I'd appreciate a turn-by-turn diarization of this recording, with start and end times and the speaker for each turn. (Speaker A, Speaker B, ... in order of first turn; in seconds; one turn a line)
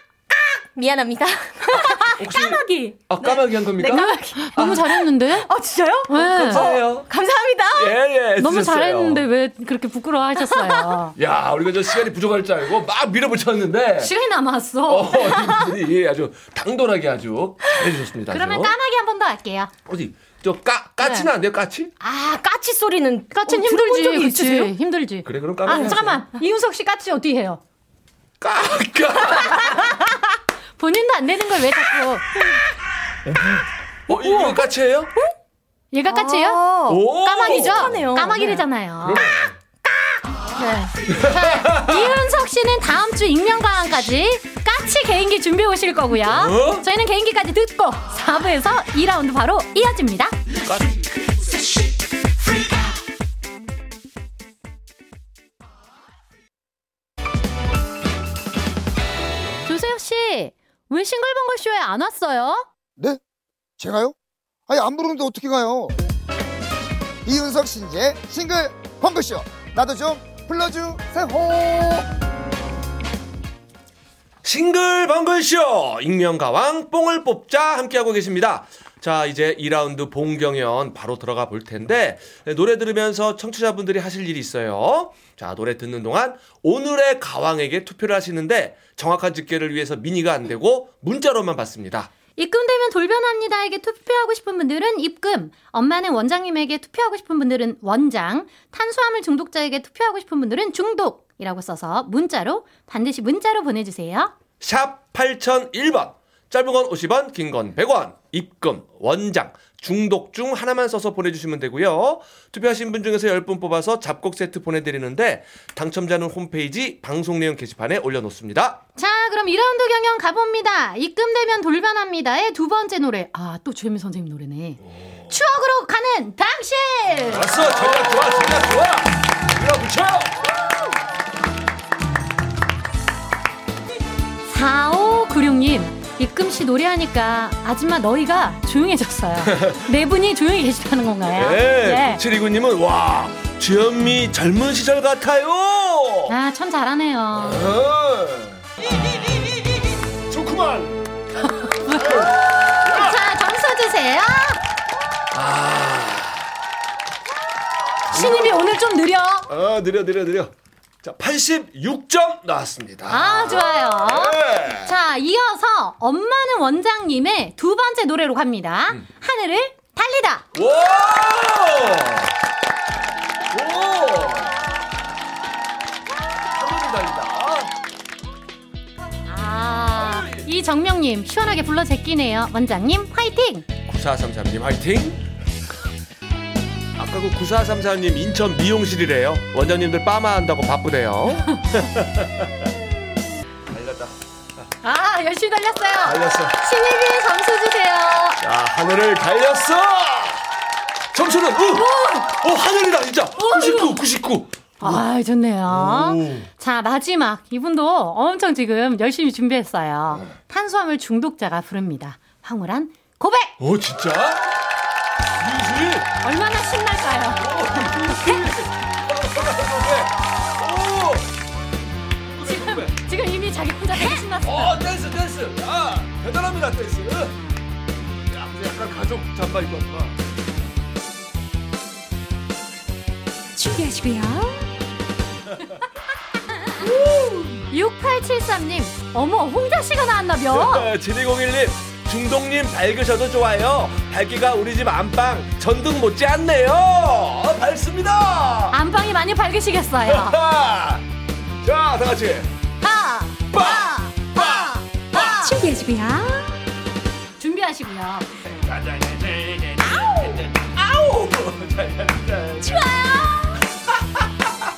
Speaker A: 0.3-8.0
Speaker B: 2.2-4.0
Speaker C: 3.8-5.5
Speaker C: 6.1-6.7
Speaker B: 6.5-7.1
Speaker B: 7.7-9.2
Speaker C: 8.4-11.1
Speaker A: 10.5-10.8
Speaker B: 11.2-14.1
Speaker C: 14.0-15.7
Speaker B: 14.8-18.7
Speaker C: 18.3-19.7
Speaker B: 19.9-21.9
Speaker C: 21.0-21.3
Speaker A: 22.0-24.7
Speaker C: 23.3-27.6
Speaker B: 25.2-26.2
Speaker B: 28.4-30.0
Speaker C: 30.8-32.2
Speaker B: 34.1-35.1
Speaker C: 34.1-34.6
Speaker C: 35.9-36.6
Speaker A: 36.0-38.6
Speaker B: 36.9-38.0
Speaker C: 37.2-39.2
Speaker B: 39.0-39.5
Speaker C: 40.6-50.4
Speaker B: 41.1-42.0
Speaker B: 46.3-46.8
Speaker C: 59.6-62.6
Speaker D: 63.8-64.1
Speaker D: 64.7-65.9
Speaker D: 67.2-72.1
Speaker B: 74.4-92.1
Speaker C: 92.3-104.3
Speaker B: 104.6-118.8
Speaker C: 119.0-127.5
Speaker B: 127.3-130.3
Speaker C: 134.4-142.2
Speaker B: 141.3-146.3
Speaker C: 146.3-147.6
Speaker B: 147.3-148.6
Speaker B: 150.3-151.1
Speaker C: 151.6-154.6
Speaker B: 151.9-153.2
Speaker B: 155.3-156.5
Speaker C: 158.1-159.5
Speaker B: 158.1-158.6
Speaker B: 159.5-164.9
Speaker C: 163.1-170.4
Speaker B: 170.5-172.3
Speaker B: 173.5-174.6
Speaker B: 176.5-177.7
Speaker C: 179.2-183.7
Speaker B: 179.9-180.5
Speaker B: 183.9-185.2
Speaker B: 187.0-192.5
Speaker B: 193.7-194.1
Speaker C: 194.8-198.4
Speaker B: 196.0-196.6
Speaker B: 198.4-200.4
Speaker B: 201.1-205.0
Speaker C: 201.7-202.3
Speaker C: 203.4-204.0
Speaker C: 204.8-213.5
Speaker B: 205.7-206.5
Speaker B: 213.6-214.5
Speaker B: 215.4-216.1
Speaker C: 216.2-217.5
Speaker B: 217.4-221.3
Speaker C: 218.1-218.5
Speaker B: 222.3-222.9
Speaker C: 222.4-224.8
Speaker B: 224.4-227.4
Speaker B: 228.3-230.1
Speaker E: 233.6-234.7
Speaker B: 237.1-237.5
Speaker C: 237.7-240.9
Speaker B: 240.5-248.8
Speaker C: 248.7-250.4
Speaker B: 250.1-251.0
Speaker B: 251.6-252.5
Speaker C: 252.8-255.6
Speaker B: 253.5-255.2
Speaker E: 255.2-256.6
Speaker C: 257.4-258.3
Speaker B: 258.5-262.8
Speaker E: 262.6-263.5